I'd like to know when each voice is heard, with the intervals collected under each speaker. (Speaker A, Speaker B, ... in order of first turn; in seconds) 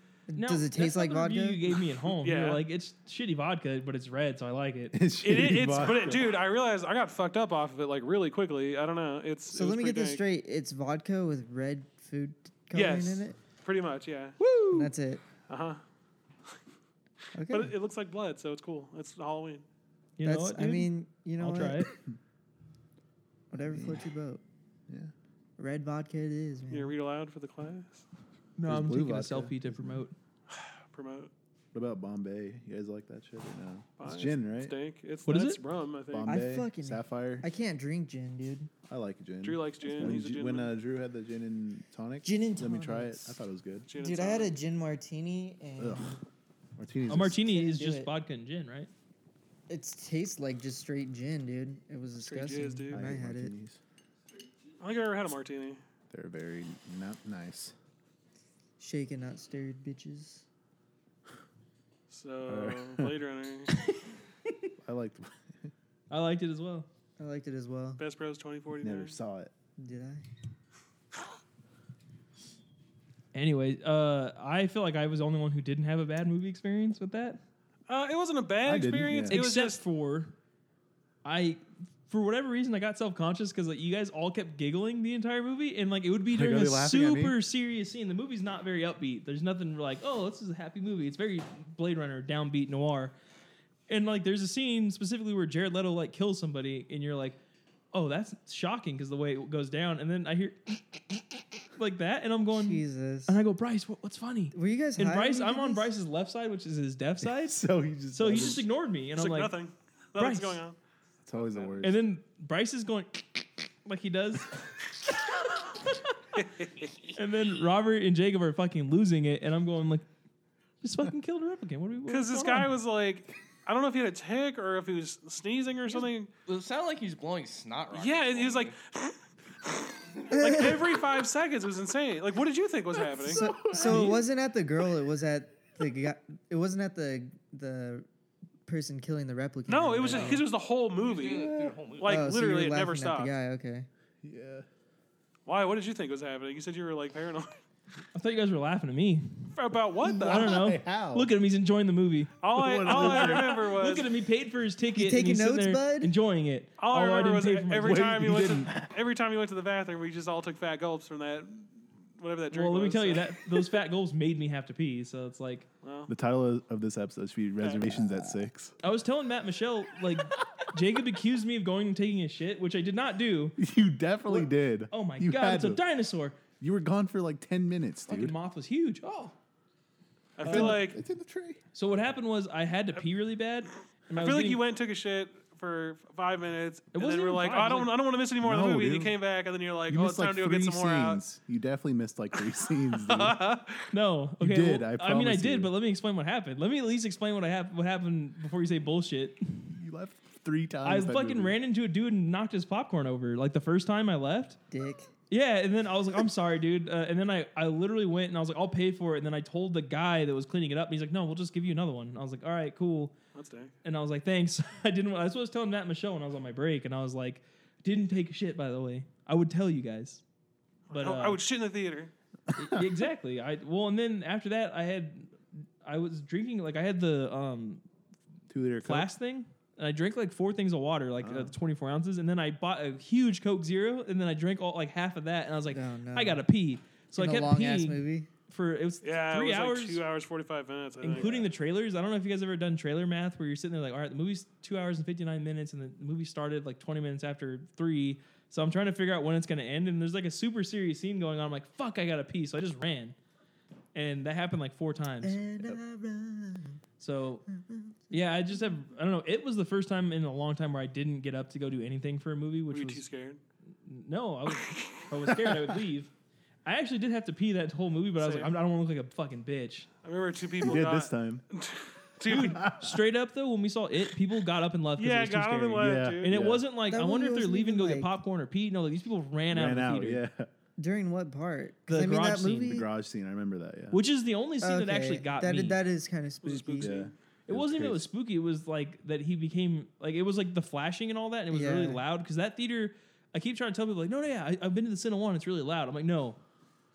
Speaker A: 0.3-1.6, 9.5-13.4, 14.7-15.2, 17.3-17.7, 20.2-21.9, 23.5-24.4, 25.6-26.9, 36.2-38.7, 39.8-40.1, 42.2-43.4, 44.0-46.2, 47.4-48.1, 49.7-53.5, 58.8-60.4, 67.2-68.0, 69.8-70.2, 102.5-103.4, 104.5-105.9, 130.4-130.7, 133.2-138.1, 138.7-140.4, 142.0-143.9, 154.9-156.1, 204.7-205.1, 235.7-236.4, 237.2-238.3, 255.2-256.8, 257.7-258.2, 276.9-278.1, 280.8-282.9, 284.6-286.9, 291.5-292.0
Speaker B: 0.3-5.0, 14.4-14.9, 20.2-21.9, 28.6-30.1, 35.2-35.6, 47.1-48.9, 63.7-64.7, 66.1-66.9, 73.3-77.4, 79.3-80.3, 81.2-93.1, 93.9-97.4, 97.9-109.5, 110.2-110.6, 111.8-116.2, 117.1-120.0, 120.8-122.7, 133.7-134.2, 148.1-149.5, 150.2-152.3, 152.9-158.2, 162.5-165.7, 168.8-173.6, 174.3-176.4, 178.1-179.3, 180.4-180.9, 181.7-184.6, 186.9-187.9, 193.9-199.8, 200.8-204.6, 205.3-213.1, 213.8-220.2, 220.9-221.4, 222.5-227.8, 228.8-240.0, 241.0-253.1, 253.9-255.4, 257.0-257.5, 258.1-263.0, 263.8-266.1, 266.6-269.9, 272.3-280.2, 281.9-282.8, 283.9-285.8, 287.5-296.4
Speaker C: 2.2-2.6, 5.2-10.2, 12.7-14.3, 15.5-15.8, 17.5-19.6, 26.7-28.0, 30.5-31.3, 34.0-36.4, 39.4-40.7, 43.9-44.5, 52.2-53.1, 54.8-55.8, 62.1-63.8, 68.0-69.2, 77.9-79.8, 109.1-110.8, 111.4-111.8, 116.3-116.7, 122.1-126.3, 127.9-133.5, 139.7-143.3, 145.4-147.6, 149.5-150.6, 152.4-154.1, 156.8-163.3, 165.8-166.1, 167.6-167.9, 180.4-181.0, 184.1-191.2, 193.1-193.8, 213.3-213.7, 220.9-222.1, 239.0-241.3, 262.7-263.4, 264.5-265.1, 268.2-268.5, 270.0-272.6, 275.0-276.3, 286.4-287.1
Speaker D: 4.9-6.2, 23.7-24.0, 28.6-30.0, 31.7-34.7, 36.1-37.5, 38.9-43.9, 45.8-46.2, 46.8-47.4, 52.9-53.8, 56.1-57.7, 62.5-63.1, 64.8-65.7, 68.8-69.5, 78.6-79.4, 86.3-87.4, 107.4-108.6, 111.2-112.0, 133.0-134.2, 144.2-144.7, 150.0-151.3, 152.5-153.6, 157.8-158.9, 166.1-168.7, 173.6-175.8, 176.6-178.3, 180.4-181.6, 188.4-189.1, 189.9-193.4, 194.4-195.7, 199.7-201.5, 222.6-222.8, 228.5-229.1, 231.2-231.5, 241.2-241.5, 270.6-271.4, 272.3-273.0, 275.8-276.6, 279.5-280.5, 282.7-284.0, 286.8-288.1
Speaker E: 116.8-117.1, 126.5-128.8, 141.0-142.3